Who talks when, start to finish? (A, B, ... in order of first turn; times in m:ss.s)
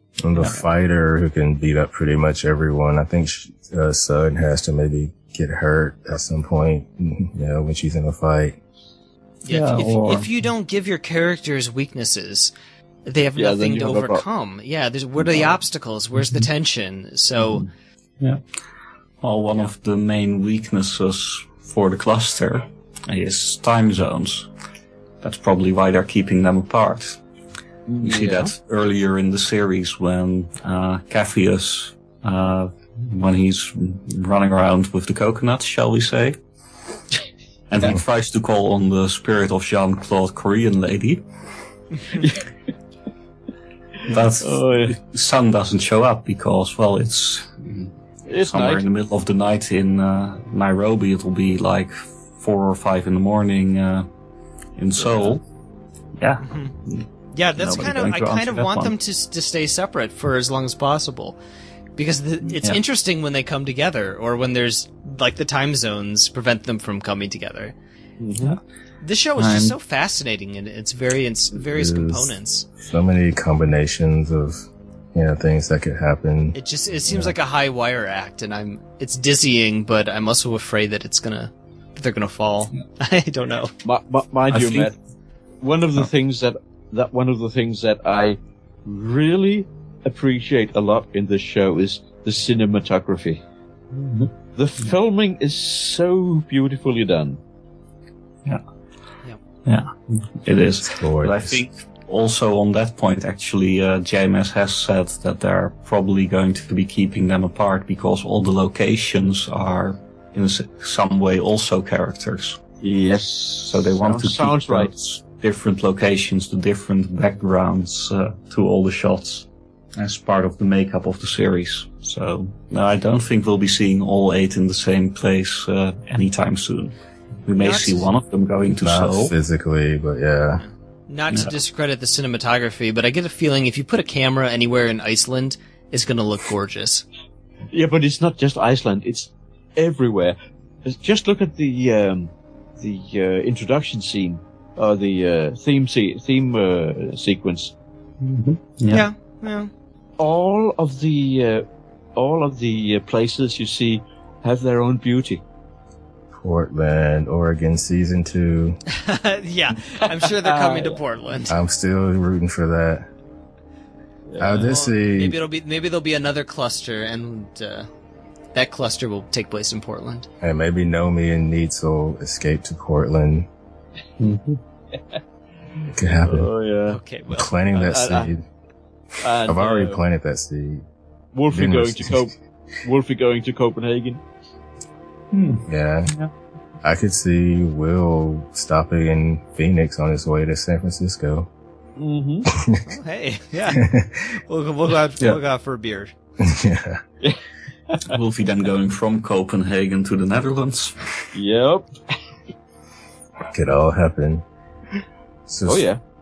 0:00.2-0:08.6 A
0:09.4-0:12.5 B
0:09.5-0:10.3 C
0:13.1-0:17.7 B
0:13.4-0:14.2 D
0:16.2-0:16.5 C
0:19.2-0:24.5 C
0:25.2-0:27.2 C
0:27.9-0:28.5 D
0:28.0-0:36.4 C
0:37.7-0:41.2 C
0:42.2-0:42.4 D
0:44.1-0:54.1 C
0:44.4-0:45.0 D
0:48.3-0:48.8 D
0:54.8-0:55.4 C
0:55.0-0:55.4 D
0:56.2-0:58.9 C
0:56.4-0:56.7 B
0:57.3-1:01.4 B
1:02.0-1:07.7 B
1:02.5-1:02.8 C
1:08.2-1:08.6 D
1:09.0-1:12.7 B
1:09.4-1:09.8 C
1:11.6-1:17.3 A
1:16.5-1:23.7 B
1:23.8-1:24.9 D
1:24.5-1:24.9 C
1:25.6-1:33.4 D
1:33.9-1:34.3 C
1:34.6-1:37.4 D
1:39.6-1:52.6 C
1:40.9-1:41.6 A
1:52.8-1:54.9 D
1:53.7-1:59.5 C
2:00.0-2:09.3 C
2:07.6-2:08.1 B
2:08.8-2:10.6 A
2:10.6-2:17.0 B
2:17.7-2:27.7 D
2:28.2-2:29.1 C
2:28.9-2:29.7 B
2:30.2-2:35.4 D
2:36.4-2:38.8 A
2:38.9-2:41.6 B
2:40.3-2:41.0 D
2:41.5-2:43.1 A
2:44.3-2:44.6 D
2:44.4-2:45.4 A
2:44.5-2:47.9 B
2:48.5-2:50.3 B
2:50.4-2:53.5 A
2:54.2-2:54.6 C
2:55.9-2:56.5 A
2:56.2-2:57.0 D
2:56.9-2:57.6 B
2:57.3-2:58.4 A
2:57.7-2:58.3 D
2:59.2-3:00.0 D
2:59.4-3:00.8 A
3:01.3-3:04.2 D
3:01.5-3:02.3 A
3:05.3-3:06.3 C
3:05.7-3:06.1 A
3:06.8-3:11.5 A
3:12.0-3:12.5 D
3:12.5-3:12.8 A
3:12.8-3:16.1 B
3:13.7-3:14.2 A
3:16.4-3:17.0 A
3:18.1-3:21.3 C
3:21.3-3:21.9 D
3:23.5-3:24.4 A
3:25.5-3:25.9 A
3:25.7-3:26.0 D